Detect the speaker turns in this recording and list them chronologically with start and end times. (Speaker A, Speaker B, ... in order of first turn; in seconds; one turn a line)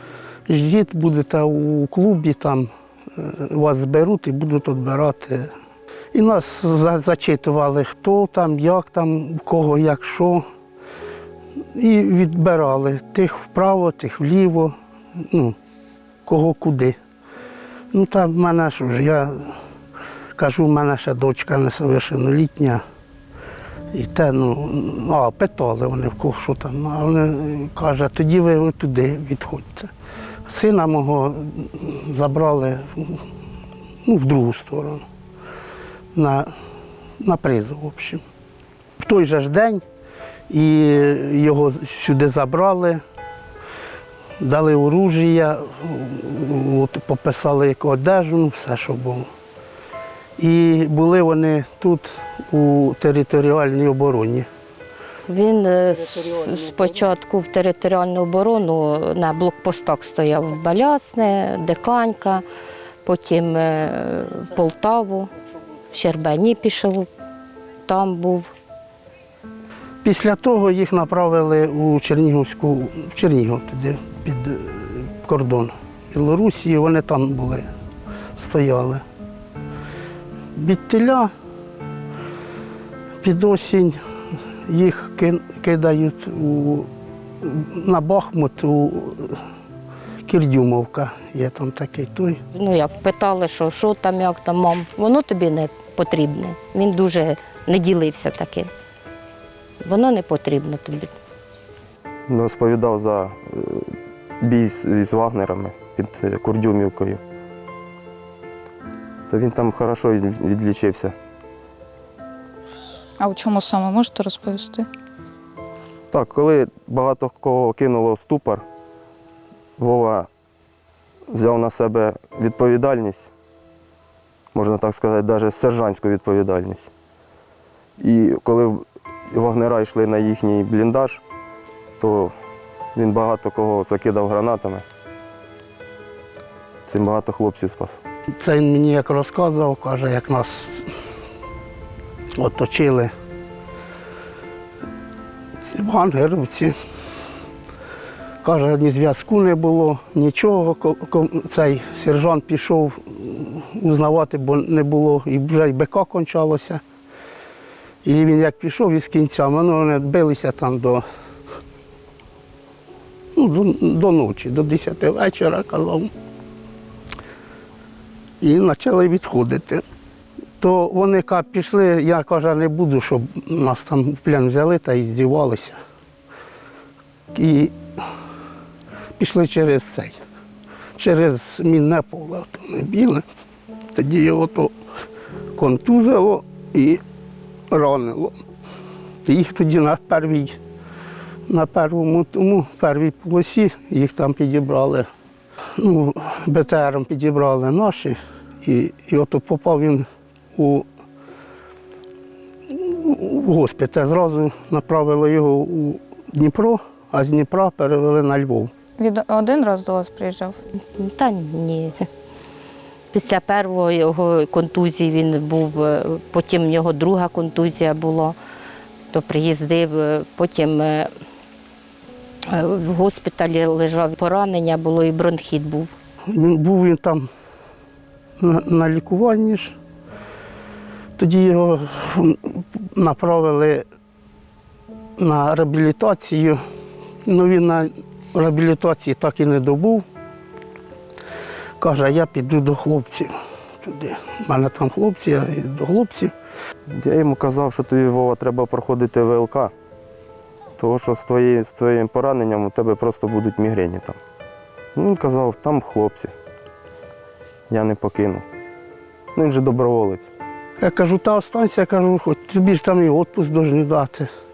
Speaker A: 0.5-5.5
Speaker A: 6.1-10.4
Speaker A: 11.7-15.6
Speaker A: 16.3-17.0
Speaker A: 17.9-19.6
Speaker A: 20.4-22.8
Speaker A: 23.9-29.9
Speaker A: 30.5-33.2
Speaker A: 34.0-35.0
Speaker A: 36.1-36.5
Speaker A: 37.2-38.2
Speaker A: 39.0-39.8
Speaker A: 40.5-43.0
Speaker A: 44.4-49.3
Speaker A: 50.4-54.5
Speaker B: 55.3-62.4
Speaker B: 63.0-65.3
Speaker B: 65.9-67.1
Speaker B: 67.8-68.5
Speaker A: 70.0-77.7
Speaker A: 78.4-79.0
Speaker A: 80.5-81.3
Speaker A: 83.2-84.0
Speaker A: 84.7-86.9
Speaker A: 87.4-89.4
Speaker A: 90.3-92.4
Speaker B: 92.5-98.7
Speaker B: 99.8-101.1
Speaker C: 102.3-107.2
Speaker C: 109.3-111.2
Speaker D: 113.2-114.9
Speaker C: 116.1-118.7
Speaker C: 119.8-120.3
Speaker C: 121.3-123.3
Speaker C: 124.5-126.9
Speaker C: 128.0-131.2
Speaker C: 132.0-132.3
Speaker C: 132.9-134.8
Speaker C: 136.9-138.0
Speaker A: 138.4-140.9
Speaker A: 142.4-143.1
Speaker A: 145.6-146.8
Speaker A: 148.4-156.8
Speaker A: 158.0-161.0
Speaker A: 163.3-166.1
Speaker A: 168.4-169.8
Speaker A: 170.6-175.8
Speaker A: 177.3-178.1
Speaker A: 179.2-180.2
Speaker A: 181.0-183.2
Speaker A: 183.9-184.7
Speaker A: 185.6-187.0
Speaker A: 187.7-188.4
Speaker A: 189.2-190.6
Speaker A: 191.5-195.1
Speaker A: 195.8-200.9
Speaker A: 202.7-208.7
Speaker D: 209.0-210.6
Speaker B: 210.9-212.1
Speaker B: 213.1-218.4
Speaker B: 219.1-221.1
Speaker B: 222.5-225.9
Speaker A: 226.3-227.3
Speaker A: 228.4-229.8
Speaker A: 231.2-233.9
Speaker A: 235.2-236.6
Speaker A: 237.2-240.1
Speaker A: 241.8-246.3
Speaker C: 246.9-249.7
Speaker C: 250.8-254.2
Speaker C: 254.9-256.3
Speaker C: 257.7-258.4
Speaker C: 259.4-260.3
Speaker A: 260.8-264.3